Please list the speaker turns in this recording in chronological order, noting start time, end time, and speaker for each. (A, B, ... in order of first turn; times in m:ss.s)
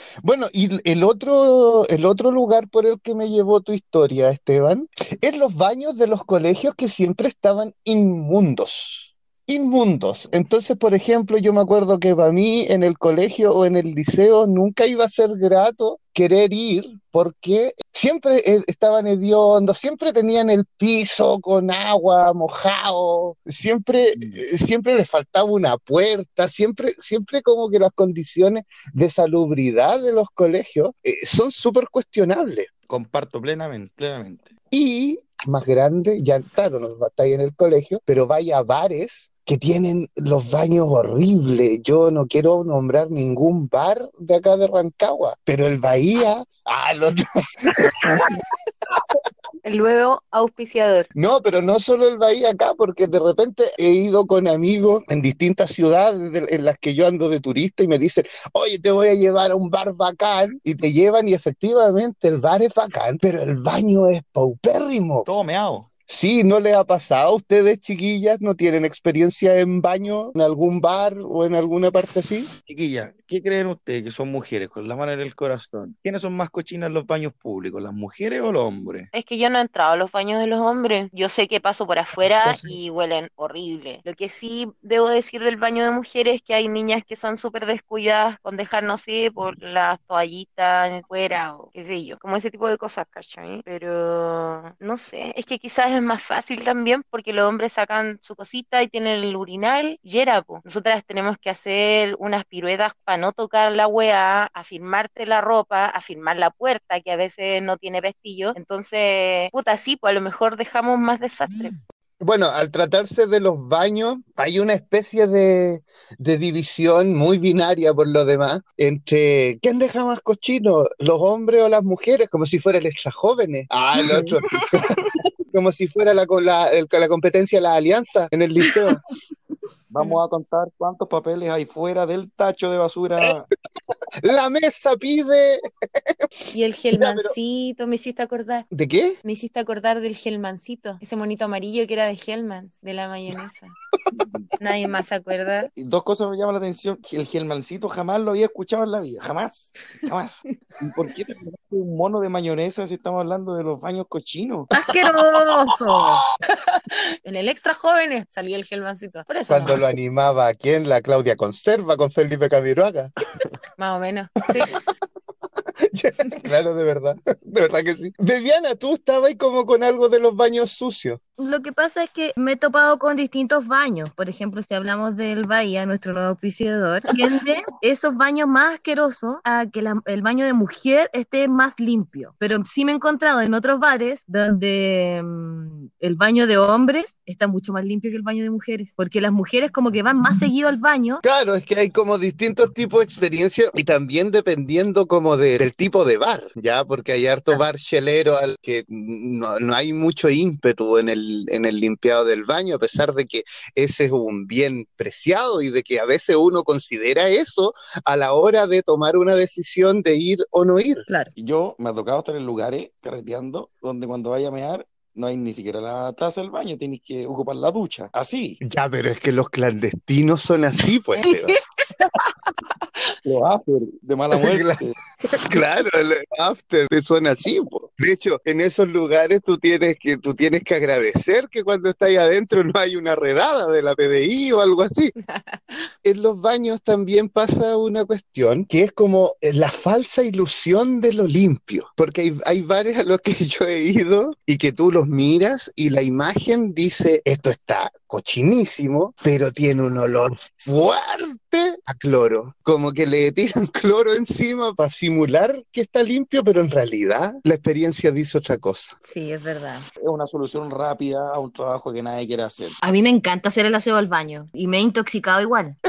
0:00.2-0:32.7 A
0:24.2-0:24.4 B
0:32.9-0:34.5 B
0:34.7-0:48.3 A
0:49.6-0:51.1 C
0:51.2-1:05.3 A
1:05.2-1:05.9 B
1:06.1-1:12.5 A
1:12.7-1:19.1 B
1:19.1-1:51.8 C
1:22.4-1:22.7 B
1:52.2-2:09.0 A
2:09.9-2:13.5 B
2:14.2-2:15.6 A
2:16.5-2:18.7 D
2:16.9-2:17.4 A
2:18.7-2:19.2 A
2:19.2-2:23.8 D
2:24.6-2:25.7 D
2:25.8-2:34.7 B
2:34.7-2:36.2 E
2:37.2-2:39.8 D
2:39.5-2:43.1 A
2:43.8-2:44.7 D
2:45.9-2:51.2 A
2:51.4-3:11.2 E
3:11.2-3:31.0 A
3:31.4-3:38.6 B
3:38.7-3:41.6 A
3:43.2-3:44.9 B
3:44.3-3:44.8 A
3:45.3-3:55.1 A
3:55.2-3:55.8 D
3:56.0-4:19.0 A
4:20.0-4:22.8 B
4:22.8-4:25.8 E